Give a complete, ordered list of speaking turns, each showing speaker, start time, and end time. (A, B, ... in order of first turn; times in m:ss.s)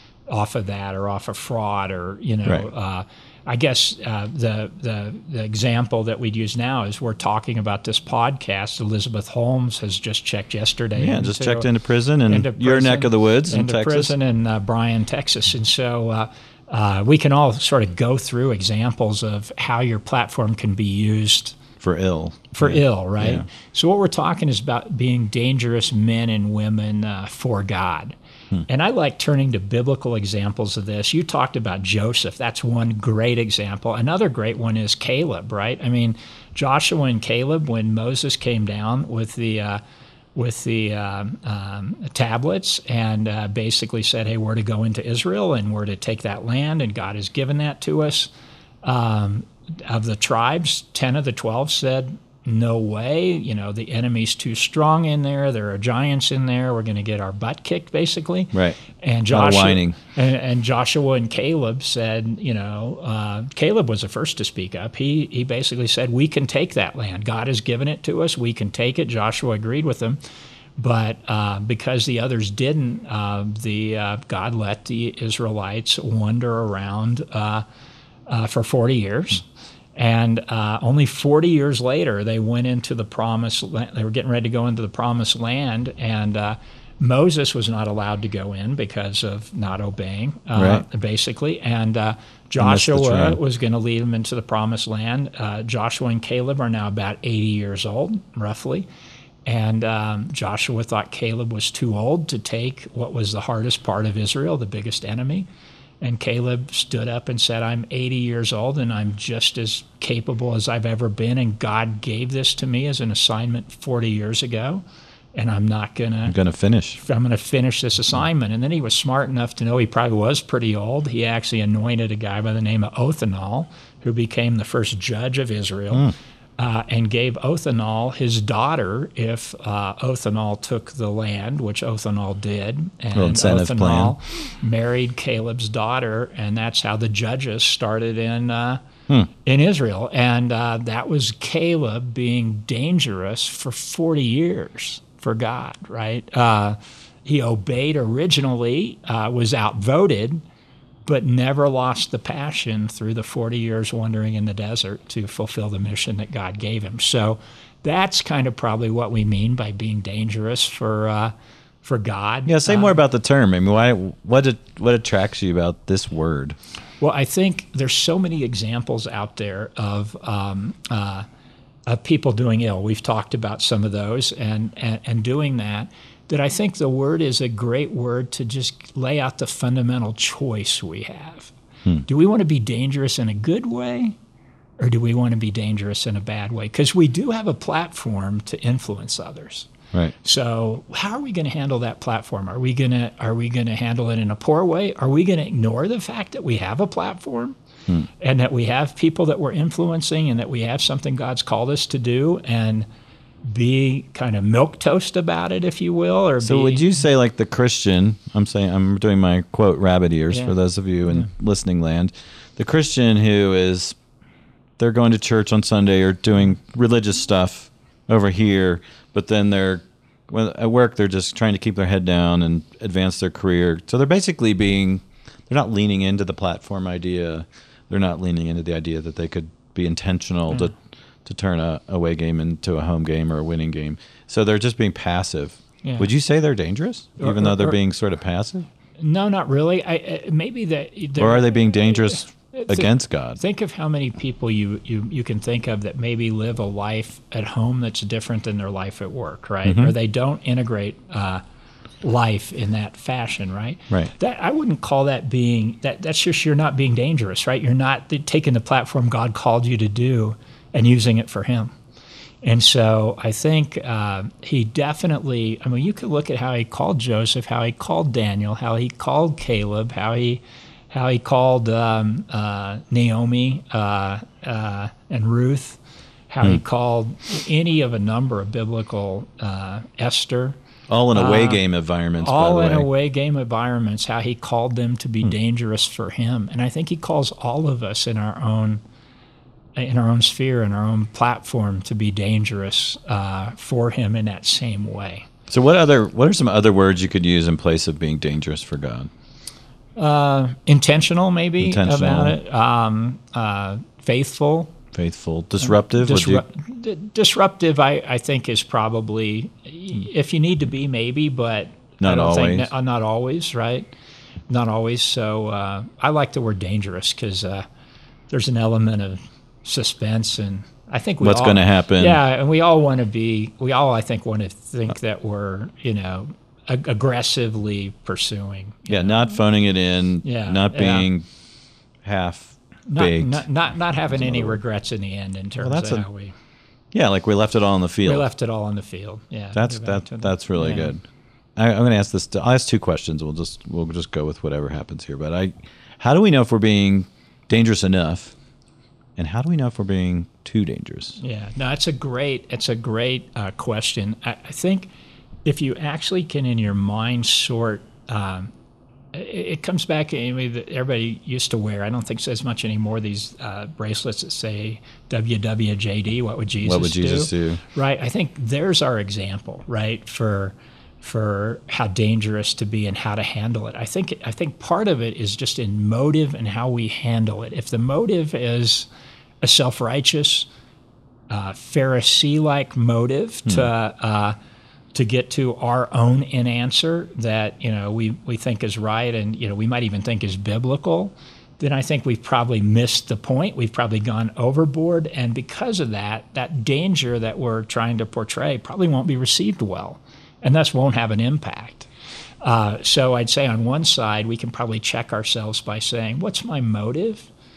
0:00.3-0:11.7 A
0:11.0-0:14.2 B
0:12.3-0:21.6 A
0:21.8-0:23.5 B
0:22.5-0:28.2 A
0:28.7-0:39.8 A
0:40.4-0:48.3 A
0:48.8-1:10.2 A
0:59.3-1:00.0 B
1:10.8-1:17.6 A
1:18.3-1:19.4 A
1:20.0-1:38.9 A
1:30.6-1:30.8 B
1:32.6-1:33.4 B
1:39.5-1:45.5 A
1:46.0-1:54.8 A
1:55.4-1:56.4 A
1:56.3-1:57.0 B
1:57.0-2:18.8 A
2:13.1-2:14.2 B
2:19.4-2:30.4 A
2:31.1-2:43.0 A
2:42.5-2:46.6 B
2:47.0-2:51.3 A
2:51.9-3:01.5 A
3:02.0-3:04.2 A
3:04.8-3:09.7 A
3:10.2-3:17.6 A
3:18.2-3:22.9 A
3:23.4-3:26.9 A
3:26.4-3:34.0 B
3:30.3-3:30.6 A
3:34.8-3:58.7 B
3:55.8-3:56.1 A
3:57.2-3:57.8 A
3:59.0-4:11.4 A
4:01.2-4:03.4 B
4:09.7-4:09.9 B
4:12.0-4:21.7 A
4:22.4-4:40.6 A
4:40.9-4:42.9 B
4:41.1-4:41.6 A
4:42.2-4:48.8 A
4:49.8-4:55.3 A
4:55.5-4:59.1 B
5:00.0-5:04.8 A
5:01.6-5:02.4 B
5:04.9-5:06.4 B
5:05.6-5:13.9 A
5:12.0-5:12.7 B
5:14.5-5:17.7 A
5:18.3-5:29.2 A
5:21.2-5:22.2 B
5:28.9-5:31.2 B
5:30.2-5:31.1 A
5:32.0-5:33.5 B
5:32.9-5:36.4 A
5:34.1-5:34.6 B
5:35.6-5:36.1 B
5:36.9-5:38.3 B
5:38.0-5:40.9 A
5:39.5-5:41.0 B
5:41.6-5:48.4 B
5:49.2-5:51.2 B
5:51.2-5:54.9 A
5:55.5-5:58.5 A
5:59.1-6:18.9 A
6:06.6-6:07.6 B
6:19.4-6:20.5 A
6:21.3-6:24.4 A
6:24.9-6:41.9 A
6:42.4-6:47.3 A